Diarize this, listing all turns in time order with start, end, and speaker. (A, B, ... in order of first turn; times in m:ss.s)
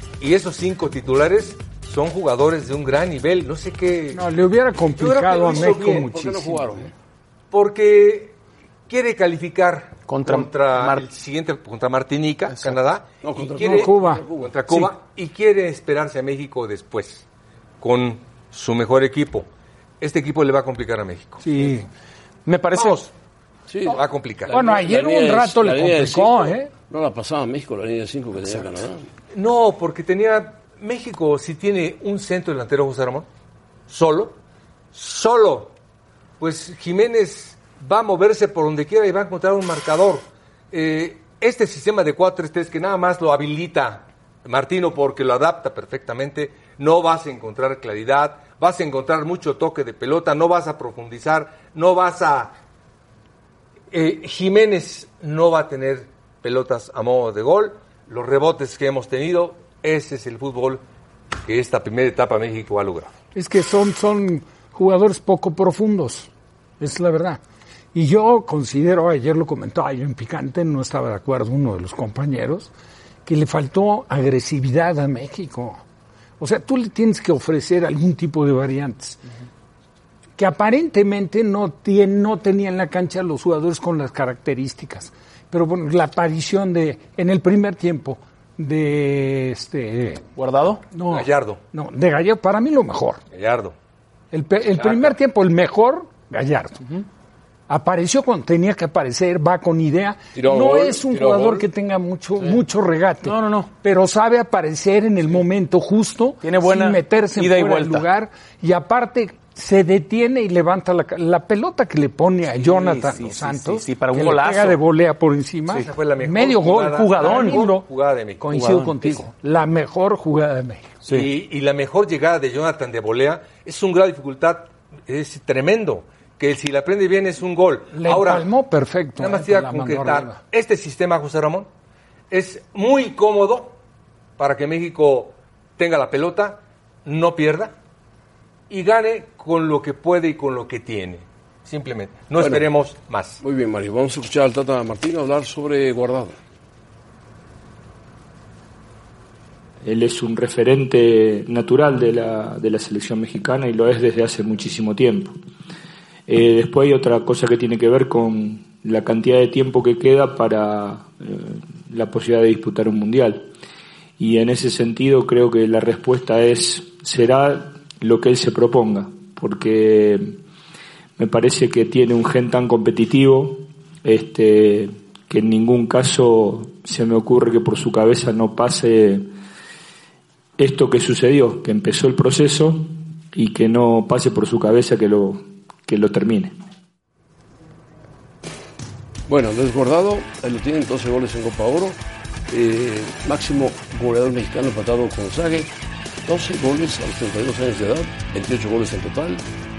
0:00.2-0:04.2 A
0:04.1-0:06.7 B
0:05.0-0:06.1 A
0:05.4-0:06.9 C
0:07.5-0:08.4 A
0:08.9-0:17.2 A
0:10.1-0:11.0 D
0:13.2-0:14.6 C
0:13.6-0:14.2 B
0:17.8-0:19.5 A
0:20.0-0:21.5 A
0:21.4-0:21.9 B
0:22.4-0:23.0 D
0:22.7-0:23.1 A
0:23.7-0:29.1 C
0:23.9-0:24.5 A
0:24.5-0:26.7 B
0:29.3-0:33.3 A
0:33.9-0:34.4 A
0:34.9-0:35.7 A
0:36.4-0:52.5 A
0:53.9-1:00.8 A
1:01.4-1:03.1 A
1:03.3-1:06.3 B
1:06.8-1:07.4 B
1:07.9-1:12.7 B
1:13.2-1:15.8 B
1:16.4-1:19.2 B
1:20.4-1:30.2 B
1:30.4-1:30.8 D
1:30.9-1:33.2 B
1:31.1-1:31.6 A
1:33.3-1:33.7 A
1:34.3-1:36.8 B
1:34.8-1:35.2 A
1:37.7-1:57.8 B
1:40.3-1:41.7 C
1:43.2-1:43.7 D
1:46.4-1:48.1 D
1:52.6-1:54.8 D
1:55.7-1:58.6 A
1:56.9-1:57.6 D
1:58.4-2:00.9 B
1:58.5-1:58.9 D
2:01.1-2:08.5 A
2:07.9-2:10.4 B
2:09.2-2:11.7 A
2:12.3-2:13.8 A
2:14.4-2:17.7 A
2:18.7-2:23.4 A
2:22.4-2:22.6 C
2:23.4-2:26.4 C
2:29.8-2:35.4 E
2:36.3-2:43.5 E
2:44.2-2:50.4 E
2:51.2-2:59.3 E
3:00.6-3:06.6 E
3:09.3-3:12.0 C
3:12.5-3:15.7 C
3:16.2-3:19.4 C